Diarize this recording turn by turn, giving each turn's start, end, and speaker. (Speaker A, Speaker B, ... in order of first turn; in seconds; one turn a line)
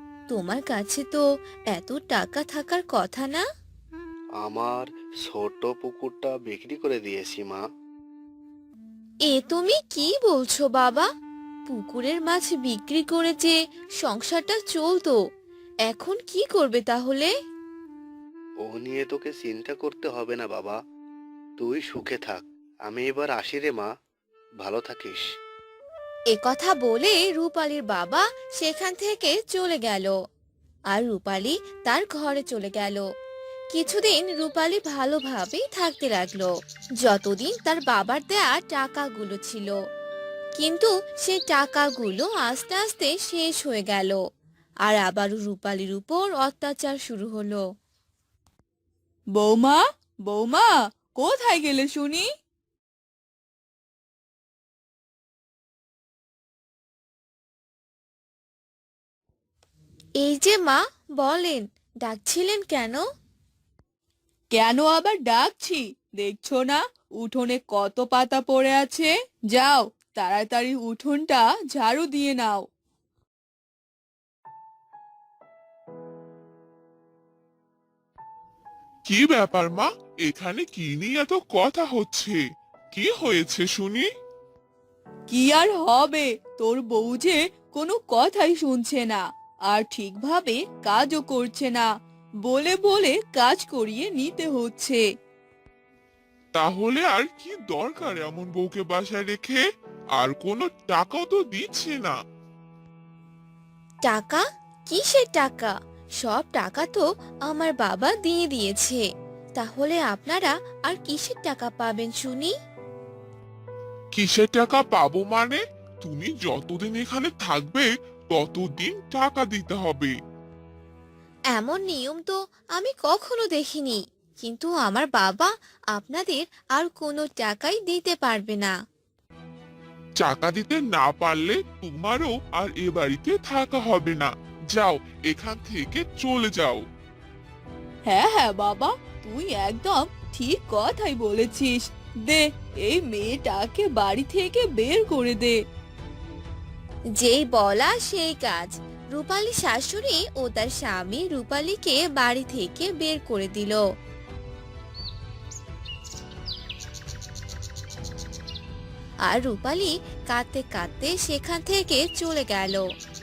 Speaker A: 0.3-3.4
Speaker B: 4.4-7.6
Speaker A: 9.3-11.1
Speaker A: 11.7-15.2
Speaker A: 15.9-17.3
Speaker B: 18.6-20.8
Speaker B: 21.6-23.9
Speaker B: 24.6-25.2
Speaker A: 26.3-30.1
Speaker A: 30.9-33.0
Speaker A: 33.7-36.5
Speaker A: 37.0-39.7
Speaker A: 40.6-44.2
Speaker A: 44.9-47.6
Speaker C: 49.4-50.7
Speaker C: 51.2-52.2
Speaker A: 60.2-63.0
Speaker C: 64.5-72.6
Speaker D: 79.1-82.4
Speaker D: 82.9-84.1
Speaker C: 85.3-91.9
Speaker C: 92.4-95.0
Speaker D: 96.5-99.6
Speaker D: 100.2-102.2
Speaker A: 104.0-109.0
Speaker A: 109.6-112.5
Speaker D: 114.1-120.1
Speaker A: 121.5-128.7
Speaker D: 130.2-136.8
Speaker C: 138.1-145.5
Speaker A: 147.2-153.8
Speaker A: 159.3-162.8